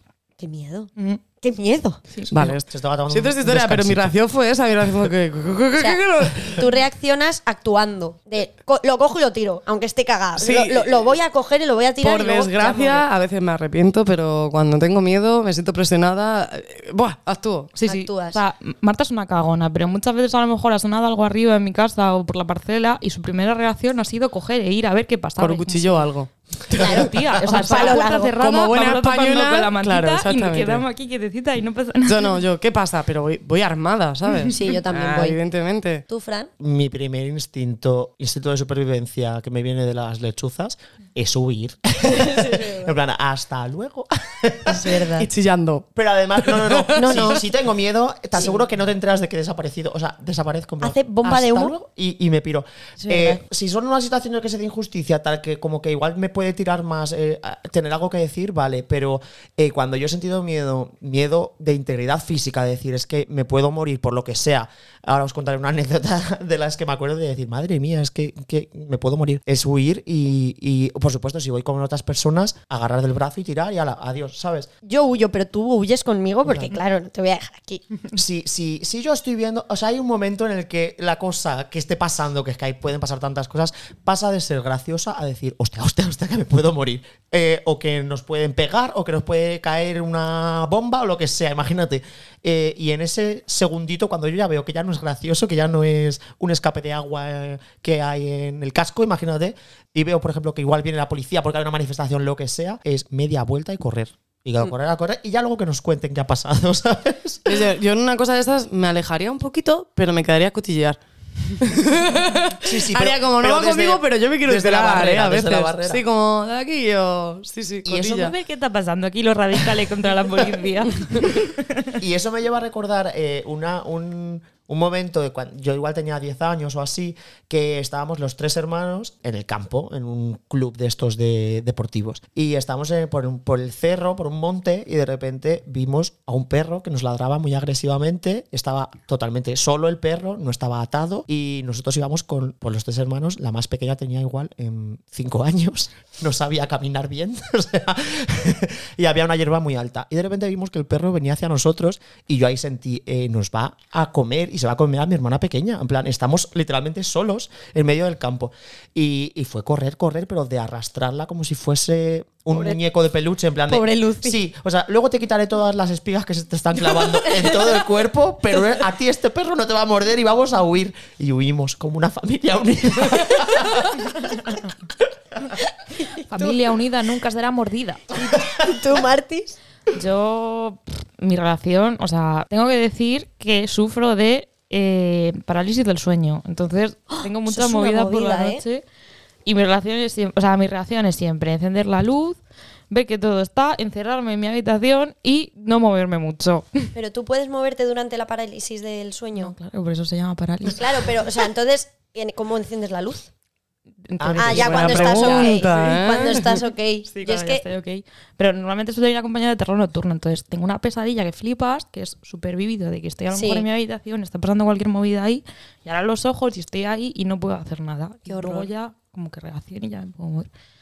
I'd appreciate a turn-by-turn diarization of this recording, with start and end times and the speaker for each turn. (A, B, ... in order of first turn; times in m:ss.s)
0:00.4-0:02.0 A
0:02.3-0:04.1 B
0:02.3-0:06.6 C
0:05.8-0:13.1 A
0:10.4-0:11.1 C
0:12.0-0:17.7 C
0:17.8-0:26.1 D
0:17.8-0:18.4 A
0:25.4-0:30.8 C
0:26.7-0:32.4 D
0:26.8-0:28.3 A
0:32.1-0:36.0 C
0:34.5-0:35.4 A
0:36.1-0:36.5 A
0:36.6-0:45.0 B
0:42.3-0:42.8 A
0:44.7-0:45.3 A
0:45.2-0:45.9 C
0:46.0-1:14.7 B
0:46.4-0:47.4 C
0:47.0-0:47.4 A
0:50.8-0:51.7 A
0:53.0-0:53.4 A
1:14.8-1:17.9 A
1:16.4-1:16.8 B
1:18.1-1:47.7 B
1:47.5-1:51.0 C
1:51.5-1:58.3 C
1:52.6-1:56.0 B
1:57.9-1:58.3 B
1:58.1-2:01.9 D
2:02.0-2:54.5 B
2:42.5-2:42.8 A
2:43.7-2:44.4 A
2:56.2-2:58.0 D
2:58.2-2:59.6 A
2:59.9-3:08.8 D
3:07.1-3:08.6 A
3:09.5-3:12.4 D
3:12.9-3:16.9 D
3:17.0-3:19.5 A
3:19.4-3:20.8 D
3:20.7-3:23.3 A
3:24.1-3:25.7 D
3:24.2-3:25.5 B
3:24.4-3:27.6 A
3:24.5-3:26.6 C
3:27.1-3:40.5 D
3:33.3-3:33.6 A
3:38.3-3:38.7 A